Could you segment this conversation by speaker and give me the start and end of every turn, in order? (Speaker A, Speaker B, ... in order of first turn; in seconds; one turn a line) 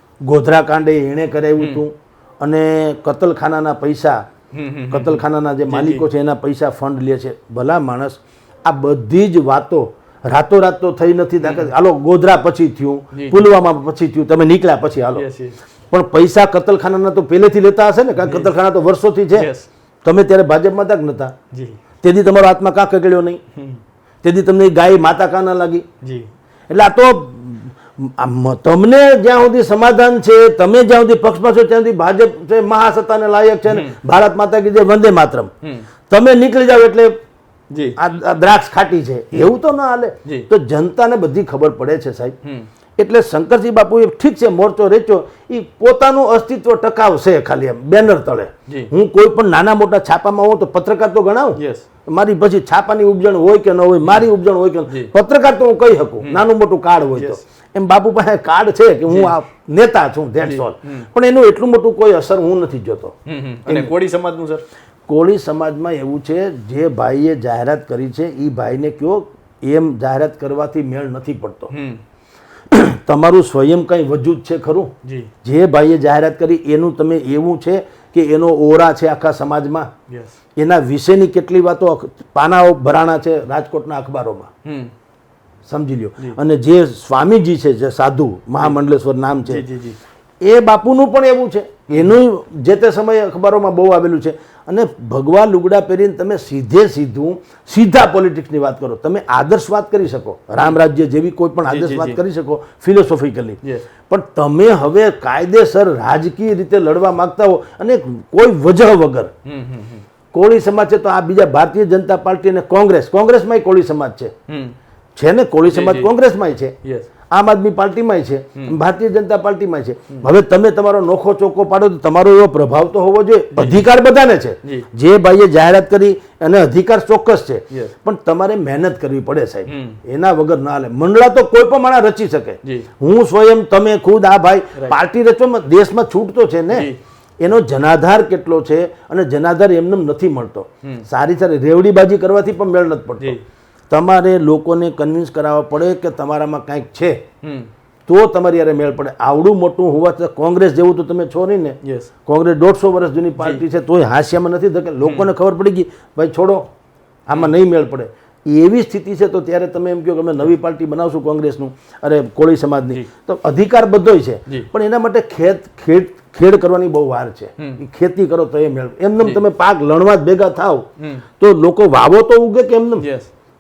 Speaker A: 0.2-4.3
Speaker B: 1.6-1.8
Speaker B: 4.5-6.1
Speaker A: 4.9-15.2
Speaker B: 11.4-11.7
Speaker B: 13.1-13.5
Speaker B: 15.1-15.6
Speaker A: 15.9-19.5
Speaker B: 18.2-18.5
Speaker B: 19.3-19.7
Speaker A: 20.1-21.4
Speaker B: 21.5-21.8
Speaker A: 22.0-23.4
Speaker B: 23.6-23.8
Speaker A: 24.2-25.9
Speaker B: 26.0-26.3
Speaker A: 26.7-35.5
Speaker B: 33.7-34.0
Speaker A: 36.1-37.1
Speaker B: 37.7-38.0
Speaker A: 38.0-42.4
Speaker A: 43.0-63.9
Speaker B: 48.7-48.9
Speaker B: 51.6-51.9
Speaker B: 56.2-56.5
Speaker B: 57.1-57.4
Speaker B: 59.1-59.4
Speaker B: 60.4-61.1
Speaker B: 63.3-64.7
Speaker A: 65.1-71.7
Speaker B: 71.7-72.0
Speaker A: 72.7-79.9
Speaker B: 75.0-75.3
Speaker B: 80.1-80.3
Speaker A: 80.6-84.5
Speaker B: 84.6-84.9
Speaker A: 85.7-89.7
Speaker B: 89.5-90.0
Speaker A: 90.4-109.3
Speaker B: 91.9-92.2
Speaker B: 101.7-102.2
Speaker B: 109.5-110.1
Speaker A: 110.3-114.3
Speaker B: 114.5-114.8
Speaker A: 115.2-116.8
Speaker B: 115.7-116.1
Speaker B: 116.8-117.1
Speaker A: 117.3-143.4
Speaker B: 123.5-123.9
Speaker B: 129.7-130.0
Speaker B: 136.7-137.0
Speaker A: 143.9-147.2
Speaker B: 147.4-147.7
Speaker A: 148.1-156.7
Speaker B: 151.8-152.1
Speaker B: 153.4-153.6
Speaker B: 155.0-155.3
Speaker A: 157.3-173.1
Speaker B: 167.6-167.8
Speaker B: 171.0-171.2
Speaker B: 173.0-173.3